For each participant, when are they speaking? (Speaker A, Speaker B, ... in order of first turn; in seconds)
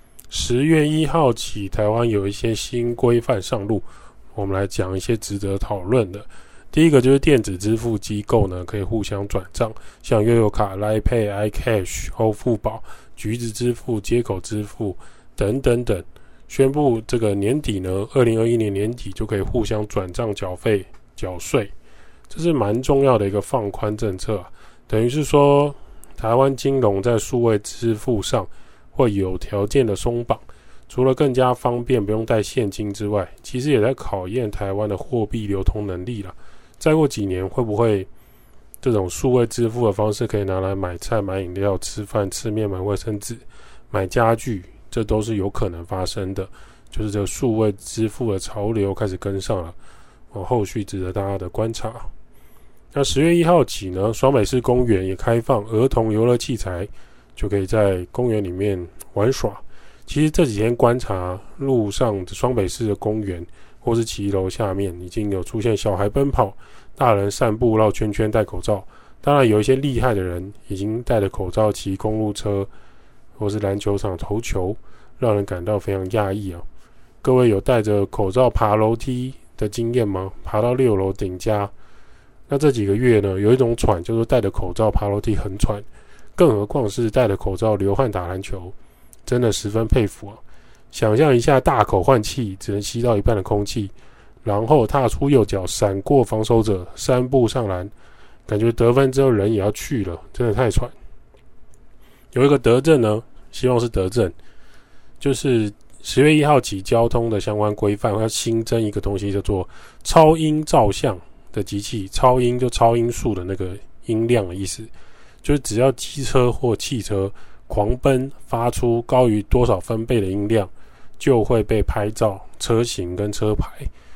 Speaker A: 0.3-21.7, 22.3-38.1, 38.8-49.7, 50.3-52.1, 52.9-72.7, 73.4-76.6, 77.2-81.7, 82.5-88.7, 89.2-90.4, 90.9-93.9, 94.4-97.9, 98.5-100.9, 102.3-104.3, 105.2-114.9, 115.4-123.9